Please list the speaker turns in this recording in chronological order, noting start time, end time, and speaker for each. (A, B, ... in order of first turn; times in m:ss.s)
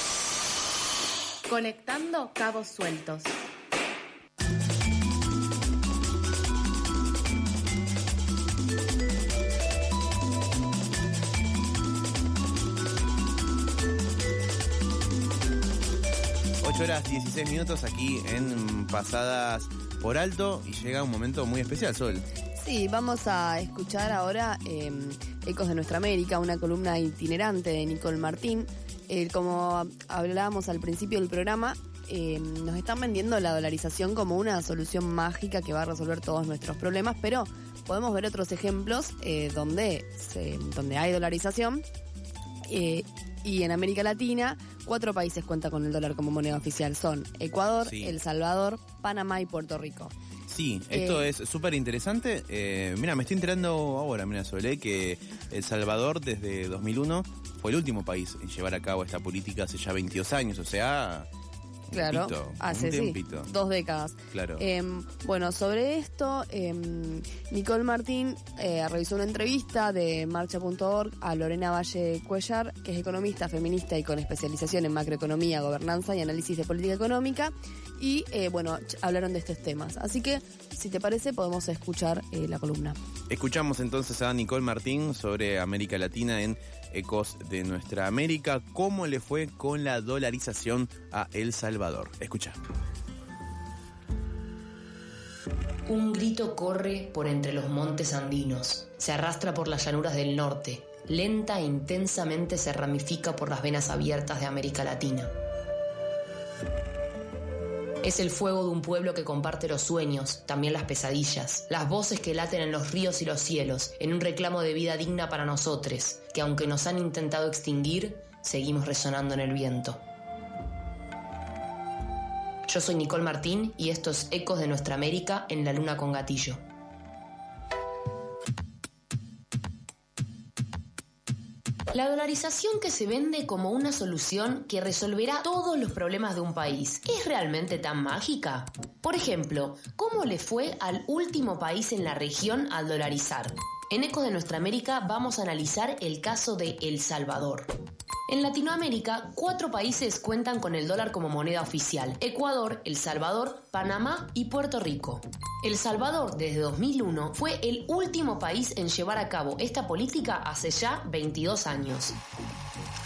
0:01.5-0:03.4 A
0:16.6-0:22.2 B
0:22.6-0:41.8 C
0:42.6-0:50.1 C
0:47.8-0:48.2 B
0:50.5-1:01.3 B
0:50.9-0:51.3 C
1:01.9-1:03.5 B
1:01.9-1:23.0 C
1:04.3-1:04.6 B
1:23.3-1:32.6 B
1:35.9-1:45.3 D
1:48.0-2:00.0 D
2:02.7-2:06.6 D
2:11.9-2:27.7 D
2:28.3-2:42.2 D